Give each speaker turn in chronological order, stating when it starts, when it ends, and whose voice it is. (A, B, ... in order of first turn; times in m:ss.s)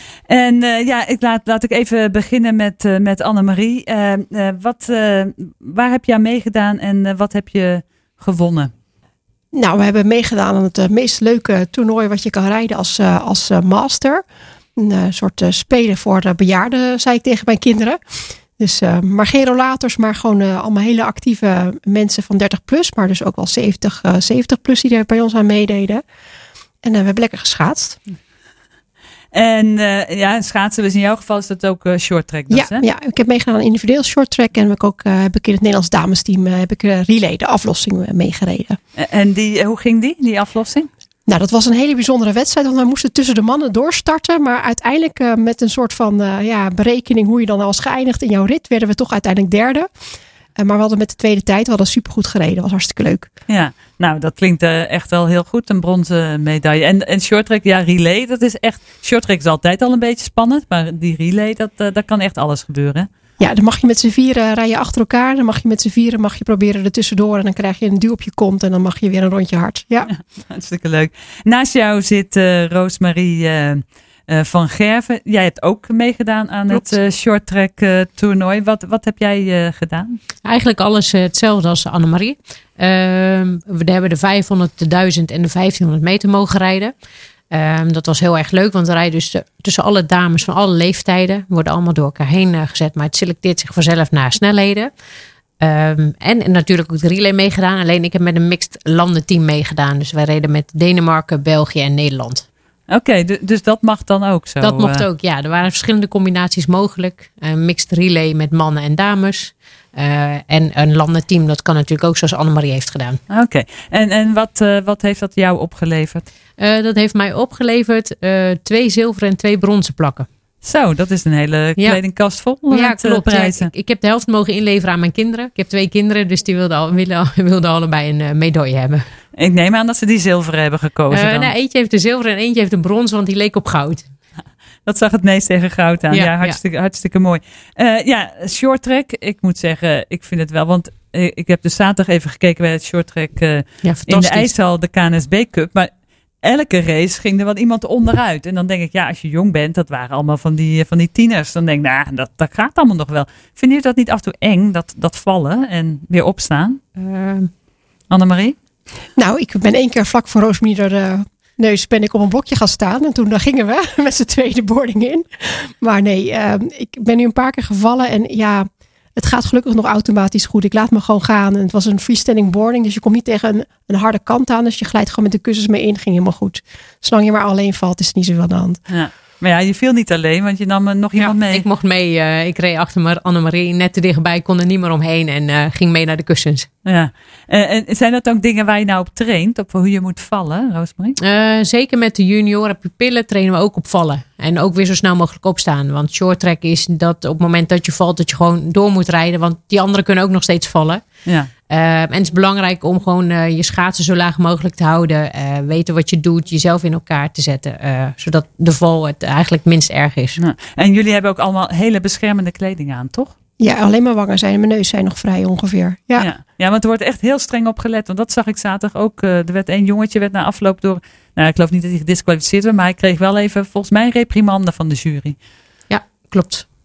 0:00.3-0:08.7 A
0:09.5-0:14.2 B
0:14.8-0:18.0 B
0:18.6-0:26.0 B
0:26.8-0:28.0 B
0:29.3-0:32.8 A
0:32.5-0:38.8 B
0:39.0-0:40.9 A
0:41.3-0:49.9 B
0:50.6-0:53.3 B
0:53.5-1:03.1 A
1:03.4-1:10.1 B
1:10.1-1:20.2 A
1:20.4-1:26.9 C
1:27.5-1:34.9 C
1:35.6-1:42.4 C
1:42.9-1:45.0 A
1:44.6-1:53.2 C
1:53.3-1:56.3 A
1:56.6-2:00.3 C
2:00.6-2:03.7 A
2:02.7-2:09.0 C
2:09.4-2:11.5 A
2:11.1-2:14.0 C
2:14.8-2:25.9 A
2:16.1-2:16.6 C
2:23.8-2:24.5 C
2:26.4-2:36.8 A
2:37.0-2:37.5 C
2:38.1-2:38.6 A
2:39.2-2:45.2 B
2:45.8-2:58.8 B
2:58.9-3:01.6 A
3:01.2-3:06.7 C
3:06.8-3:11.2 A
3:11.2-3:21.0 C
3:21.2-3:21.5 A
3:21.7-3:30.4 C
3:30.4-3:33.3 A
3:33.6-3:36.3 B
3:36.2-3:45.4 A
3:45.9-3:46.6 C